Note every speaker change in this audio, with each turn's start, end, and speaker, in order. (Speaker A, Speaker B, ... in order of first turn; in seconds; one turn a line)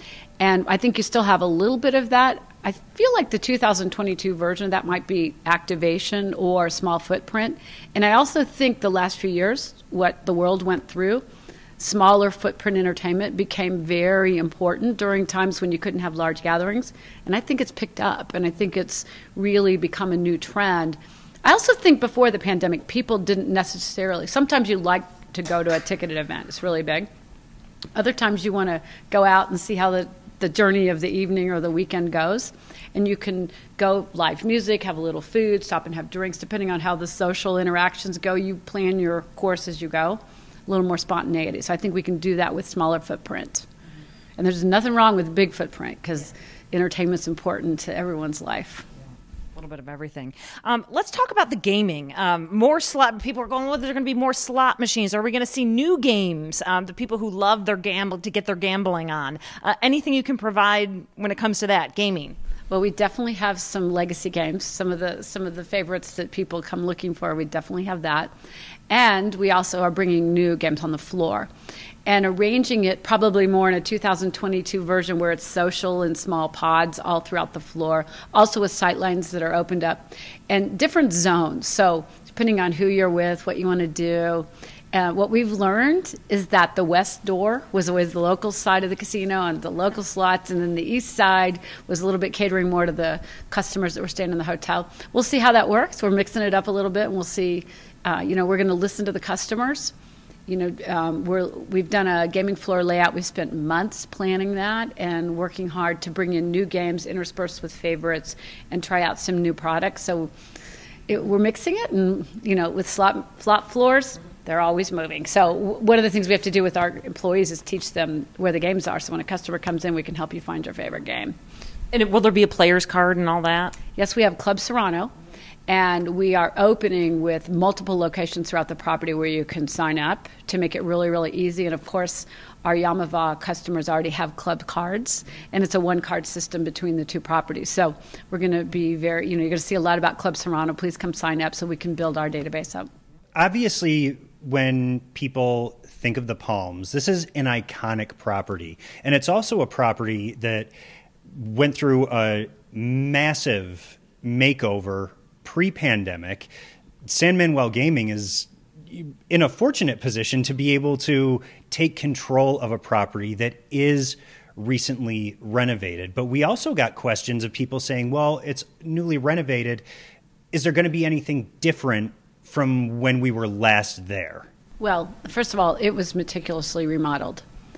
Speaker A: 0.4-11.2
Speaker A: 11.8-27.1
Speaker A: 27.9-43.7
Speaker A: 44.4-48.9
Speaker B: 49.5-62.4
Speaker A: 62.7-68.3
Speaker A: 68.9-71.5
Speaker A: 72.1-99.9
Speaker A: 100.5-110.3
Speaker A: 111.1-121.4
Speaker B: 121.9-123.8
Speaker A: 124.0-125.1
Speaker A: 125.7-142.9
Speaker C: 143.3-150.7
Speaker C: 151.3-156.5
Speaker C: 157.0-169.8
Speaker C: 170.5-174.5
Speaker A: 174.8-177.4